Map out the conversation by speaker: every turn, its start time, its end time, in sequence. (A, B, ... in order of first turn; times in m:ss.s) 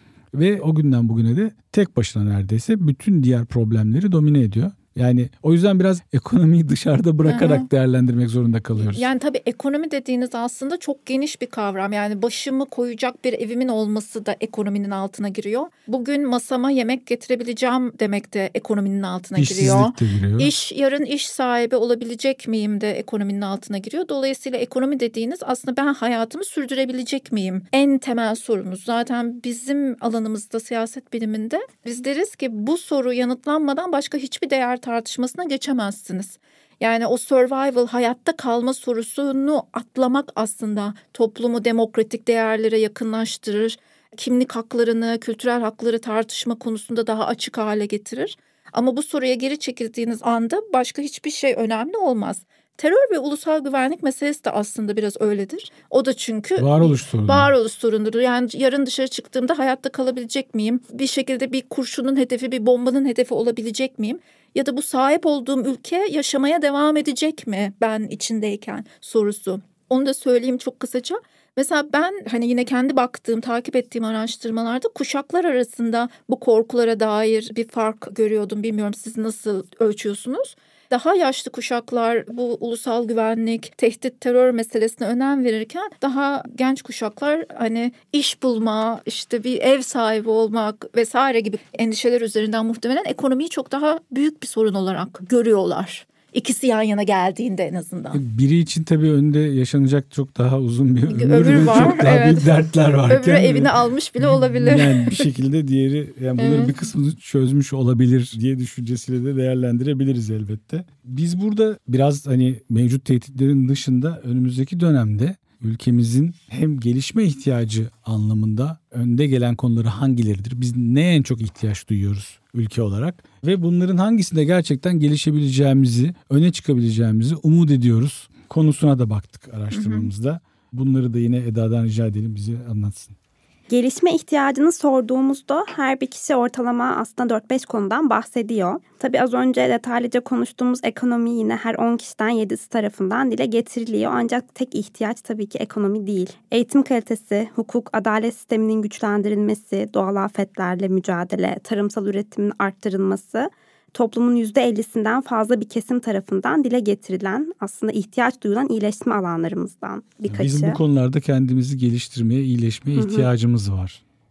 0:00.3-0:09.1 A
0:07.2-0:07.7 B
0:08.8-1:38.2 B
0:19.4-0:20.5 A
0:56.6-0:57.5 A
1:38.1-2:13.2 A
1:41.1-1:42.5 B
1:43.1-1:45.2 B
1:46.4-1:46.8 B
2:09.7-2:10.1 B
2:13.7-2:40.8 C
2:40.3-2:44.0 A
2:42.9-2:43.3 C